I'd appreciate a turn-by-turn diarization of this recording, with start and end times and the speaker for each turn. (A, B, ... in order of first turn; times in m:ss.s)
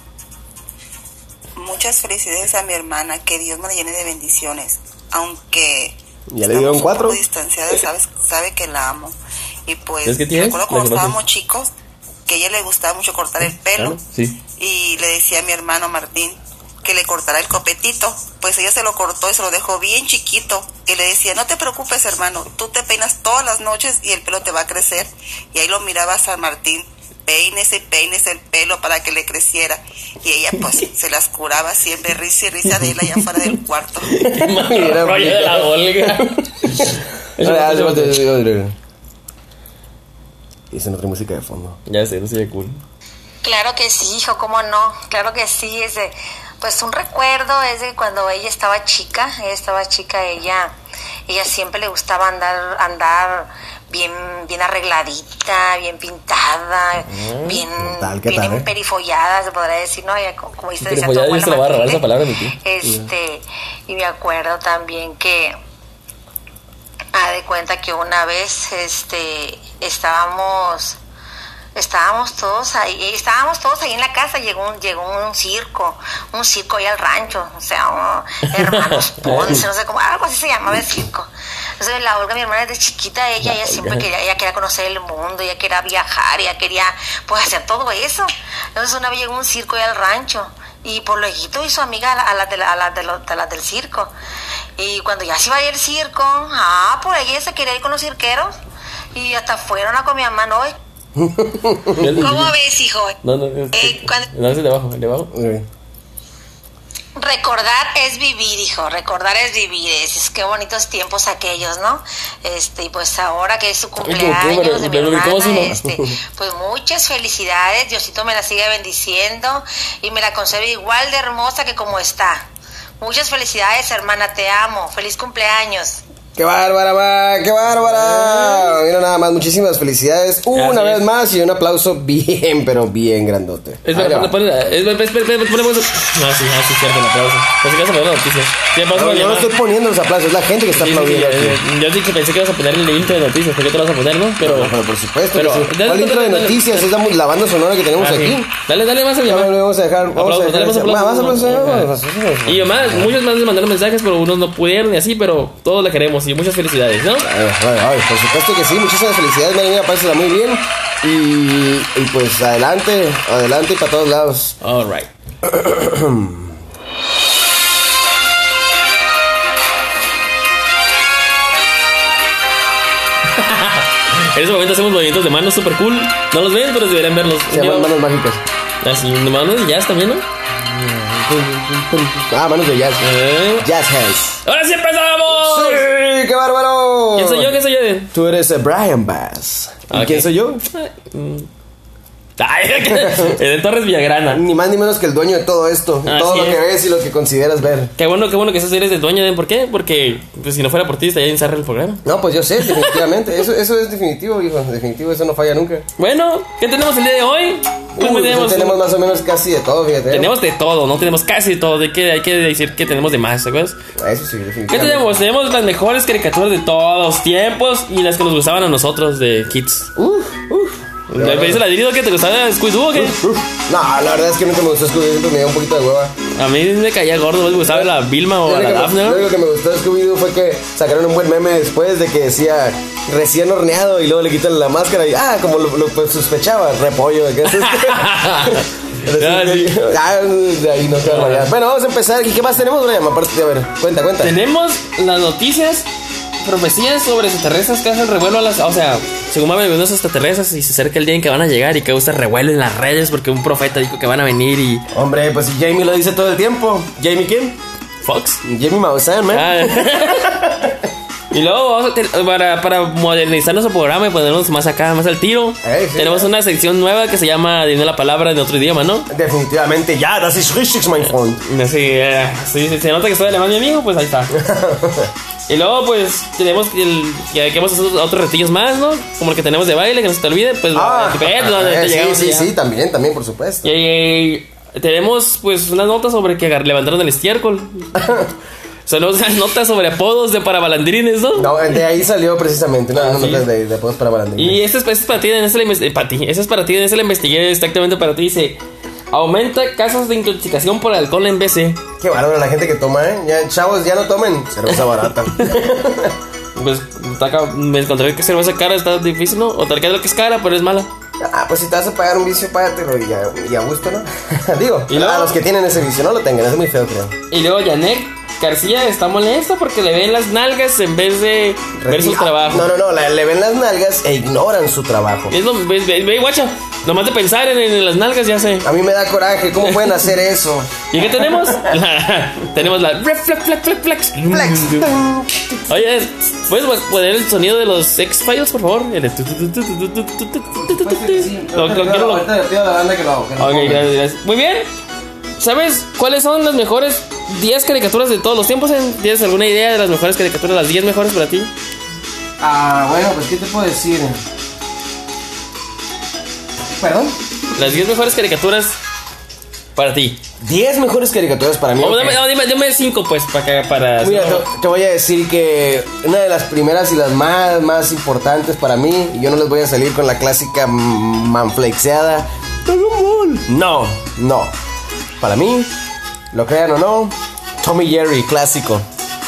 0:01.6-0:09.2 A
0:06.3-0:07.2 B
0:09.7-0:11.7 A
0:10.0-0:11.2 C
0:12.3-0:14.0 A
0:13.8-0:14.4 C
0:14.6-0:34.1 A
0:34.1-0:38.2 C
0:34.2-0:38.7 B
0:40.7-0:41.8 B
0:41.9-0:42.8 C
0:43.4-0:50.7 D
0:51.3-1:05.6 D
0:57.1-0:57.6 C
0:57.8-0:58.7 B
1:00.8-1:02.6 C
1:07.1-1:11.0 D
1:11.8-1:34.1 D
1:18.5-1:19.6 C
1:23.4-1:24.0 C
1:34.8-1:38.6 D
1:39.2-1:40.8 D
1:41.2-1:42.2 B
1:42.0-1:42.5 C
1:42.2-1:43.2 D
1:43.2-1:45.3 C
1:43.7-1:44.3 D
1:45.3-1:45.7 B
1:47.2-2:02.5 D
1:54.0-1:55.8 C
1:55.8-1:56.1 B
2:03.0-2:06.0 D
2:06.4-2:14.3 B
2:07.8-2:08.8 C
2:10.5-2:11.0 C
2:13.8-2:19.5 C
2:18.9-2:21.6 B
2:20.8-2:24.7 C
2:24.4-2:28.5 B
2:25.3-2:26.9 C
2:28.0-2:29.5 C
2:29.2-2:33.1 B
2:30.2-2:31.9 C
2:32.5-2:37.3 C
2:37.2-2:44.6 B
2:44.6-2:45.1 C
2:45.4-2:46.6 B
2:53.3-2:57.9 C
2:57.5-2:58.4 B
2:58.8-3:00.2 C
3:00.6-3:04.4 B
3:03.0-3:03.7 C
3:04.4-3:05.9 C
3:05.3-3:07.5 B
3:07.2-3:08.1 C
3:08.1-3:10.6 B
3:09.9-3:11.5 C
3:12.4-3:14.4 C
3:12.9-3:13.4 B
3:14.3-3:17.9 B
3:16.0-3:16.6 C
3:18.0-3:22.0 C
3:22.0-3:25.8 B
3:22.6-3:23.0 C
3:26.0-3:28.8 C
3:28.0-3:30.3 B
3:30.1-3:33.8 C
3:34.0-3:35.2 B
3:34.7-3:39.9 C
3:40.0-3:41.6 B
3:41.1-3:43.3 C
3:43.0-3:46.1 B
3:46.4-3:49.2 C
3:47.6-3:47.9 B
3:48.4-4:04.4 B
3:57.5-3:59.8 C
4:01.0-4:01.5 C
4:04.2-4:05.9 C
4:06.4-4:14.9 C
4:14.9-4:17.6 B
4:18.0-4:18.4 C
4:18.4-4:20.9 B
4:19.3-4:20.3 C
4:21.3-4:29.1 C
4:25.6-4:26.3 B
4:29.1-4:31.4 B
4:31.4-4:34.4 C
4:34.3-4:35.1 B
4:35.5-4:42.5 C
4:40.7-4:43.7 B
4:43.6-4:48.2 C
4:48.0-4:48.3 B
4:48.9-4:51.7 C
4:51.4-4:54.6 B
4:53.0-4:53.5 C
4:54.4-4:58.6 C
4:59.1-5:01.8 C
5:02.0-5:06.2 B
5:06.6-5:10.9 C
5:11.2-5:17.2 B
5:14.9-5:15.4 C
5:17.3-5:22.7 C
5:21.8-5:25.4 B
5:25.3-5:28.7 C
5:28.6-5:31.8 B
5:29.6-5:30.0 C
5:30.9-5:34.9 C
5:34.3-5:35.7 B
5:35.7-5:42.3 C
5:40.6-5:43.9 B
5:43.4-5:44.7 C
5:45.4-5:51.5 C
5:52.4-5:54.2 B
5:56.7-5:57.2 B
5:57.6-5:58.8 C
5:59.8-6:00.2 C
6:00.4-6:02.2 B
6:01.8-6:04.4 C
6:04.0-6:14.5 B
6:15.2-6:15.7 B
6:16.3-6:18.8 B